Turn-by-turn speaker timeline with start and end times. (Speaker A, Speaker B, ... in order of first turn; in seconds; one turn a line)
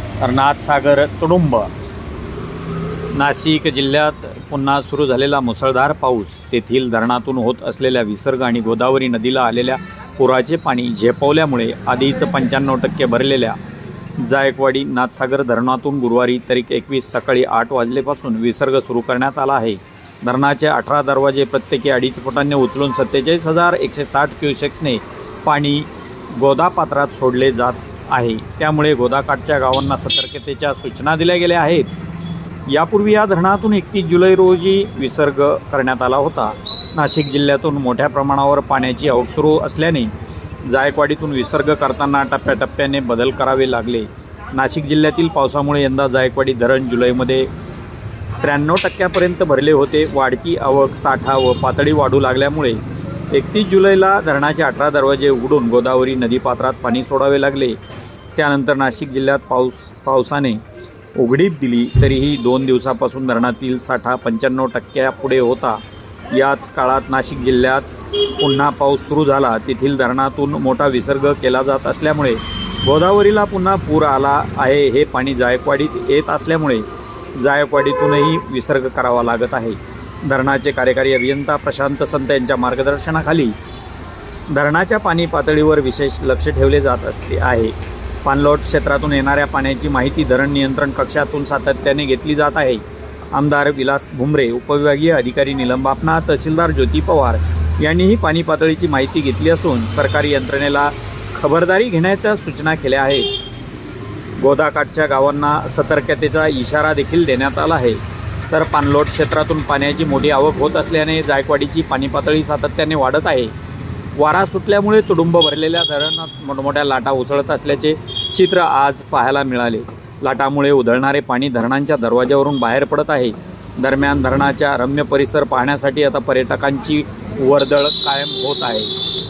Speaker A: 0.2-1.7
Speaker A: 3.1-13.6
Speaker A: 14.2-31.9
Speaker A: 32.7-40.1
Speaker A: 40.7-47.5
Speaker A: 48.4-57.8
Speaker A: 58.4-60.6
Speaker A: 61.1-65.8
Speaker A: 66.3-83.6
Speaker A: 84.5-103.3
Speaker A: 104.4-113.5
Speaker A: 114.2-128.9